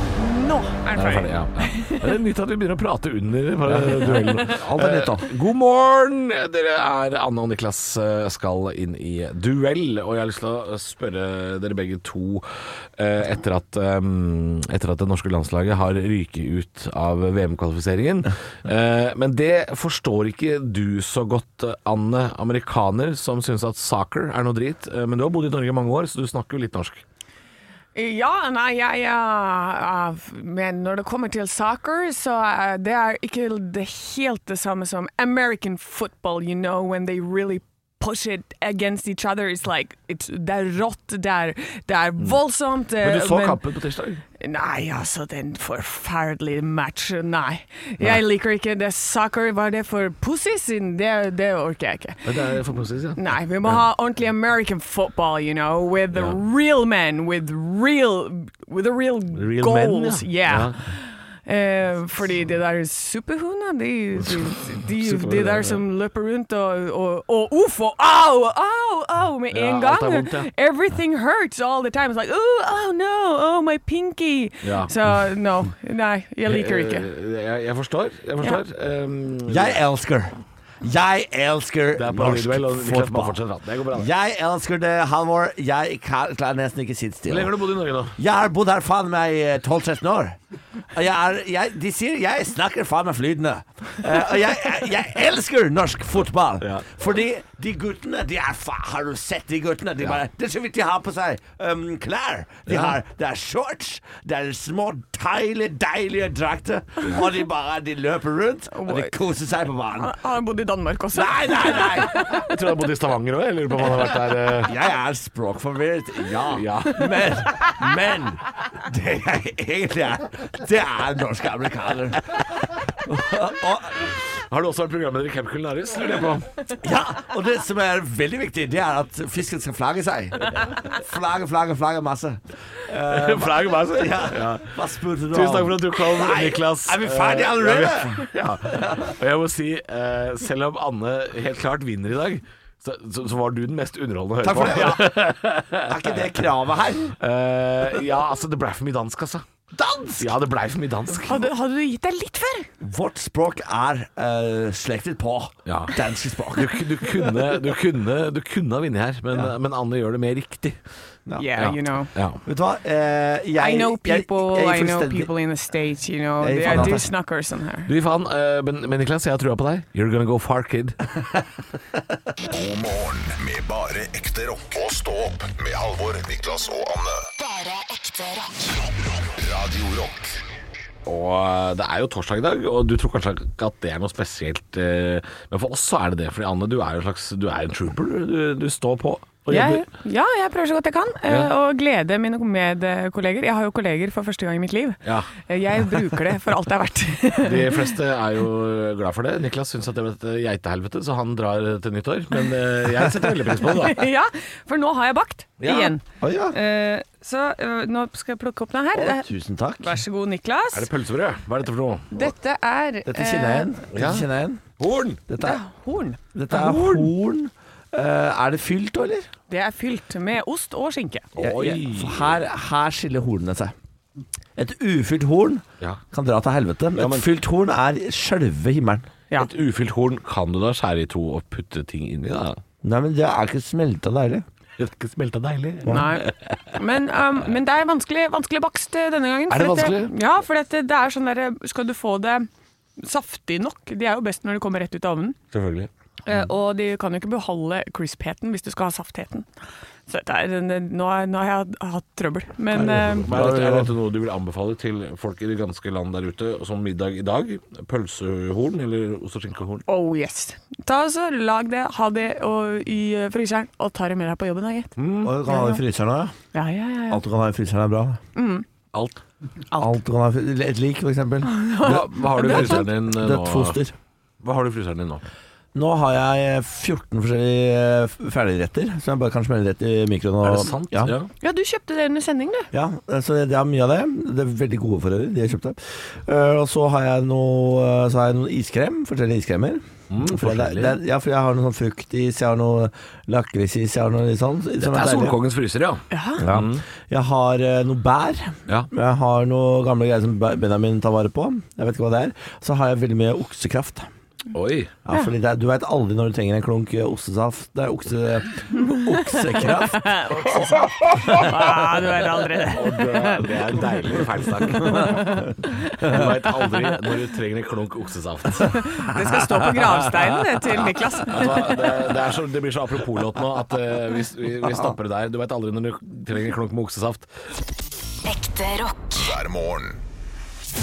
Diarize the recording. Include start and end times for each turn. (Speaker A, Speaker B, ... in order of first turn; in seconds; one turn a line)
Speaker A: 0.2-2.0
Speaker B: 1.0-27.0
Speaker C: 3.6-5.3
Speaker A: 27.9-43.6
Speaker B: 43.0-44.2
Speaker A: 44.4-52.5
Speaker B: 52.2-53.8
Speaker A: 53.1-77.1
Speaker B: 59.4-60.8
Speaker B: 64.2-65.8
Speaker B: 69.5-70.5
Speaker B: 74.6-75.0
Speaker B: 76.5-79.8
Speaker C: 79.5-87.5
Speaker B: 82.0-84.1
Speaker B: 87.3-88.2
Speaker C: 88.2-90.4
Speaker C: 90.9-110.2
Speaker B: 102.7-103.0
Speaker A: 108.7-109.2
Speaker A: 110.0-112.5
Speaker C: 111.1-112.2
Speaker B: 111.9-114.7
Speaker C: 114.6-124.0
Speaker B: 116.5-117.4
Speaker B: 124.1-126.5
Speaker C: 126.8-139.1
Speaker B: 133.1-134.7
Speaker B: 135.3-146.2
Speaker C: 144.4-147.2
Speaker B: 147.2-149.4
Speaker C: 149.7-150.3
Speaker B: 150.2-151.5
Speaker A: 151.2-152.7
Speaker C: 152.8-157.6
Speaker B: 155.7-156.0
Speaker B: 156.5-160.8
Speaker C: 161.3-161.6
Speaker A: 161.4-162.1
Speaker B: 161.6-162.4
Speaker C: 162.4-165.3
Speaker A: 163.6-167.9
Speaker C: 166.4-167.1
Speaker B: 166.7-167.0
Speaker B: 167.9-171.0
Speaker D: 172.5-177.3
Speaker E: 177.4-178.8
Speaker D: 179.0-180.4
Speaker B: 181.1-189.9
Speaker A: 189.5-197.9
Speaker B: 195.0-195.3
Speaker B: 197.4-204.1
Speaker A: 203.6-209.3
Speaker B: 205.6-205.9
Speaker C: 206.2-206.6
Speaker C: 208.9-210.0
Speaker A: 209.8-210.9
Speaker B: 210.7-212.1
Speaker A: 212.1-213.7
Speaker C: 213.1-214.6
Speaker B: 213.9-214.3
Speaker B: 214.8-215.2
Speaker C: 215.3-215.6
Speaker A: 215.4-216.2
Speaker C: 216.3-219.3
Speaker B: 216.5-217.1
Speaker A: 219.5-221.3
Speaker B: 221.4-222.4
Speaker C: 221.4-223.7
Speaker C: 224.6-229.1
Speaker B: 227.0-227.3
Speaker B: 229.4-232.6
Speaker C: 232.8-234.5
Speaker B: 234.8-236.7
Speaker A: 235.9-242.5
Speaker B: 239.5-240.2
Speaker A: 243.0-245.4
Speaker B: 245.5-245.9
Speaker A: 246.3-249.5
Speaker A: 250.1-253.3
Speaker C: 252.8-253.9
Speaker B: 252.8-259.8
Speaker A: 259.9-264.9
Speaker B: 265.0-265.3
Speaker C: 265.2-266.4
Speaker A: 265.5-265.8
Speaker A: 266.5-267.2
Speaker C: 267.1-268.2
Speaker A: 268.4-268.6
Speaker B: 268.9-269.2
Speaker C: 269.8-273.9
Speaker A: 271.5-272.8
Speaker B: 271.8-273.8
Speaker B: 274.4-275.2
Speaker C: 275.8-281.1
Speaker B: 280.4-281.3
Speaker A: 281.4-282.7
Speaker C: 282.7-295.4
Speaker B: 290.1-291.0
Speaker B: 294.8-296.8
Speaker A: 296.1-296.5
Speaker C: 296.4-304.1
Speaker B: 304.5-304.9
Speaker C: 305.1-310.5
Speaker A: 309.6-316.9
Speaker C: 311.3-311.6
Speaker B: 312.7-318.8
Speaker C: 314.9-315.3
Speaker A: 318.6-322.0
Speaker B: 321.3-327.3
Speaker E: 328.2-329.4
Speaker D: 329.1-330.0